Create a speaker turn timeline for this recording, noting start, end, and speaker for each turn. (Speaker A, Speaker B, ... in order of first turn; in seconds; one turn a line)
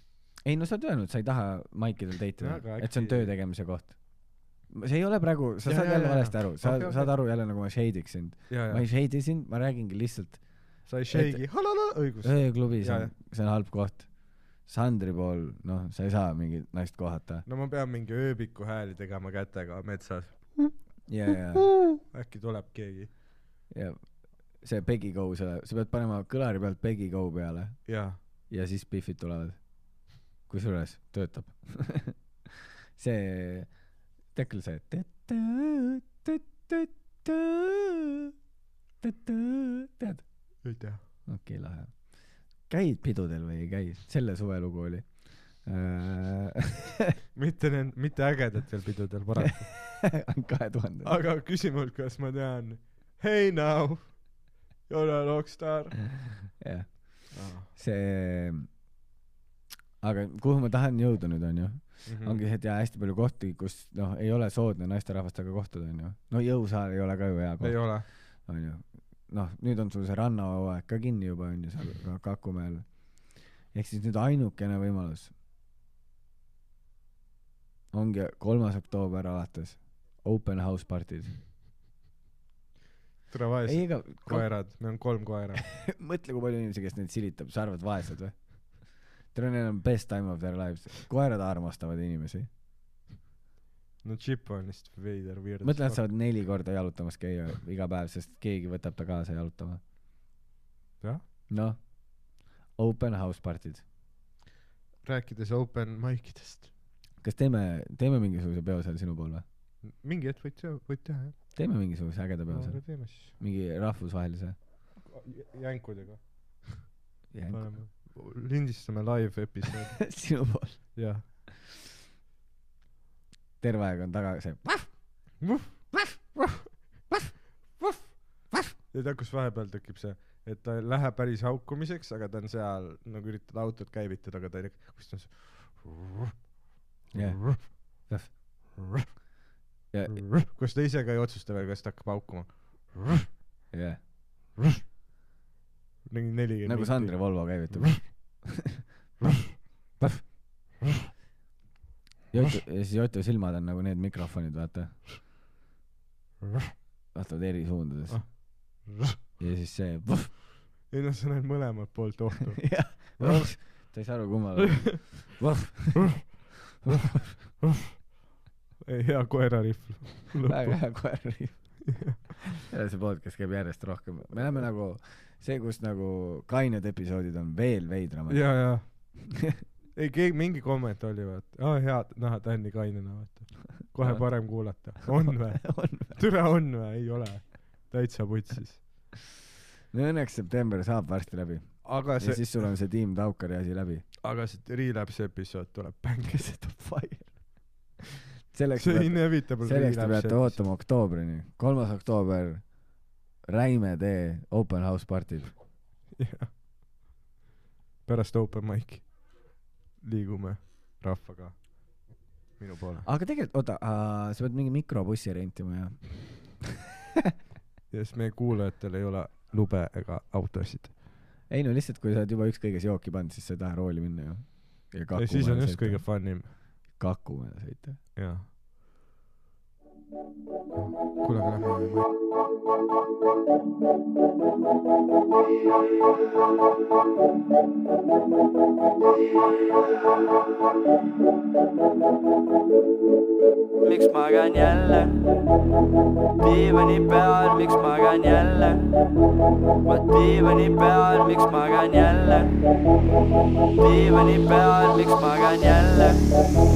Speaker A: 0.4-11.4
Speaker B: 2.4-3.3
Speaker B: 5.6-7.1
Speaker B: 8.5-8.8
Speaker B: 10.9-13.1
Speaker A: 12.2-17.4
Speaker B: 17.4-20.7
Speaker A: 21.1-21.7
Speaker B: 21.9-23.1
Speaker A: 23.7-29.8
Speaker B: 27.9-28.2
Speaker A: 30.4-32.3
Speaker A: 33.0-33.8
Speaker A: 34.3-38.0
Speaker A: 39.0-40.2
Speaker B: 40.6-41.0
Speaker A: 41.2-47.1
Speaker B: 47.3-49.7
Speaker A: 49.4-51.2
Speaker B: 51.0-56.0
Speaker A: 56.6-58.7
Speaker B: 57.3-57.7
Speaker A: 60.0-75.3
Speaker B: 62.0-62.4
Speaker B: 67.6-68.1
Speaker A: 77.9-81.3
Speaker B: 83.3-85.7
Speaker A: 83.6-85.0
Speaker A: 85.6-92.5
Speaker B: 94.0-96.1
Speaker A: 95.6-99.8
Speaker A: 101.5-103.8
Speaker B: 105.0-106.7
Speaker A: 107.2-109.4
Speaker B: 109.8-111.5
Speaker A: 111.5-114.5
Speaker B: 112.5-113.3
Speaker B: 115.0-116.9
Speaker A: 117.3-117.7
Speaker B: 117.5-120.1
Speaker A: 120.0-121.0
Speaker B: 120.9-121.2
Speaker A: 123.6-124.9
Speaker B: 125.4-126.4
Speaker B: 128.9-136.4
Speaker B: 137.1-137.6
Speaker A: 137.1-138.7
Speaker B: 138.7-139.1
Speaker A: 139.9-140.2
Speaker B: 140.1-143.2
Speaker A: 143.7-144.0
Speaker B: 146.1-148.0
Speaker A: 146.6-148.7
Speaker A: 150.0-150.3
Speaker A: 152.3-155.0
Speaker A: 157.1-158.8
Speaker B: 158.1-159.2
Speaker A: 159.4-160.3
Speaker B: 160.9-163.6
Speaker A: 162.6-167.5
Speaker B: 168.8-171.0
Speaker A: 170.4-179.6
Speaker B: 171.9-172.3
Speaker B: 178.3-179.2
Speaker B: 179.9-189.1
Speaker A: 184.0-184.2
Speaker A: 185.1-186.2
Speaker A: 189.9-194.1
Speaker B: 191.8-192.7
Speaker B: 194.2-196.9
Speaker A: 196.6-197.7
Speaker A: 198.5-202.9
Speaker B: 198.8-200.7
Speaker A: 203.4-205.5
Speaker B: 206.1-206.5
Speaker B: 208.1-213.1
Speaker A: 213.0-216.7
Speaker B: 217.9-220.9
Speaker A: 221.5-228.0
Speaker B: 225.1-226.5
Speaker B: 228.1-228.5
Speaker B: 230.7-232.0
Speaker C: 243.8-245.2
Speaker C: 246.4-248.9
Speaker C: 249.8-252.5
Speaker C: 253.8-256.2